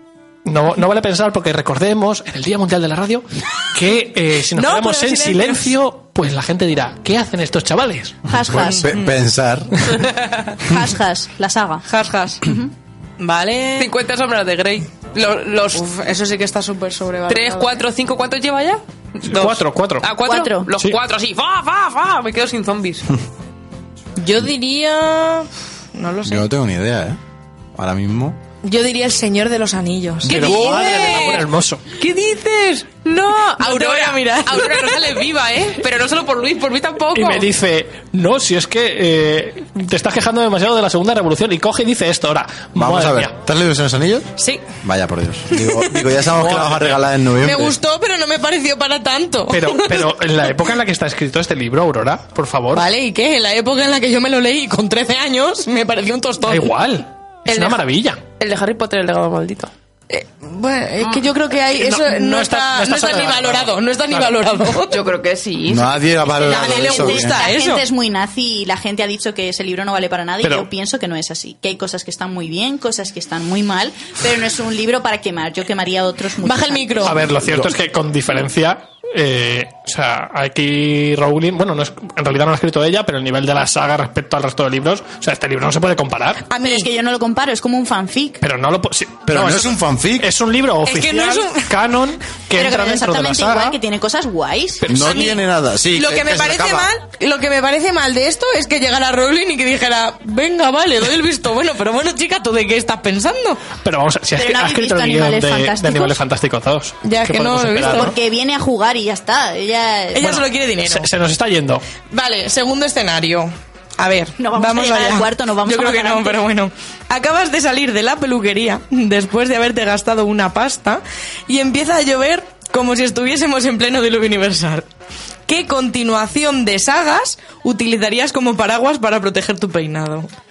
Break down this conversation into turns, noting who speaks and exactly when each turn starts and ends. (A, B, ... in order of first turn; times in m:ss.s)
0:00.4-0:08.2 A
0:04.5-0:05.7 B
0:08.3-0:08.9 C
0:08.6-0:09.9 D
0:08.6-0:09.1 B
0:10.6-0:11.9 C
0:11.9-0:12.5 B
0:13.2-0:13.9 B
0:13.8-0:15.9 E
0:15.7-0:17.8 B
0:17.3-0:23.2 E
0:19.3-0:20.2 A
0:20.2-0:20.7 C
0:24.2-0:26.4 B
0:26.2-0:27.2 D
0:27.8-0:28.4 D
0:28.6-0:30.8 B
0:30.3-0:31.8 A
0:30.3-0:37.5 E
0:30.3-0:31.3 D
0:33.6-0:35.1 B
0:37.1-0:43.3 A
0:42.8-0:47.8 D
0:44.4-0:44.6 B
0:45.6-0:45.9 B
0:46.2-0:47.1 A
0:47.4-0:50.2 B
0:49.5-0:52.9 A
0:52.7-0:56.8 B
0:56.4-0:58.2 A
0:57.5-0:57.8 E
0:58.4-0:59.7 E
1:00.1-1:05.0 B
1:01.0-1:01.3 E
1:01.7-1:04.4 A
1:04.9-1:06.6 E
1:05.6-1:07.4 D
1:06.4-1:17.2 C
1:06.4-1:07.9 B
1:10.4-1:10.7 A
1:16.4-1:17.3 B
1:17.0-1:26.5 A
1:26.5-1:26.9 B
1:26.6-1:28.4 C
1:28.4-1:33.8 A
1:29.3-1:30.3 D
1:30.8-1:31.8 B
1:32.5-1:35.3 C
1:34.8-1:35.4 A
1:34.9-1:36.9 D
1:35.9-1:43.6 B
1:43.8-1:48.1 A
1:44.4-1:46.2 C
1:47.0-1:48.2 B
1:47.8-1:50.4 C
1:50.1-1:51.1 B
1:50.2-1:51.9 A
1:52.1-2:04.9 B
1:54.4-1:56.4 C
2:05.5-2:10.3 B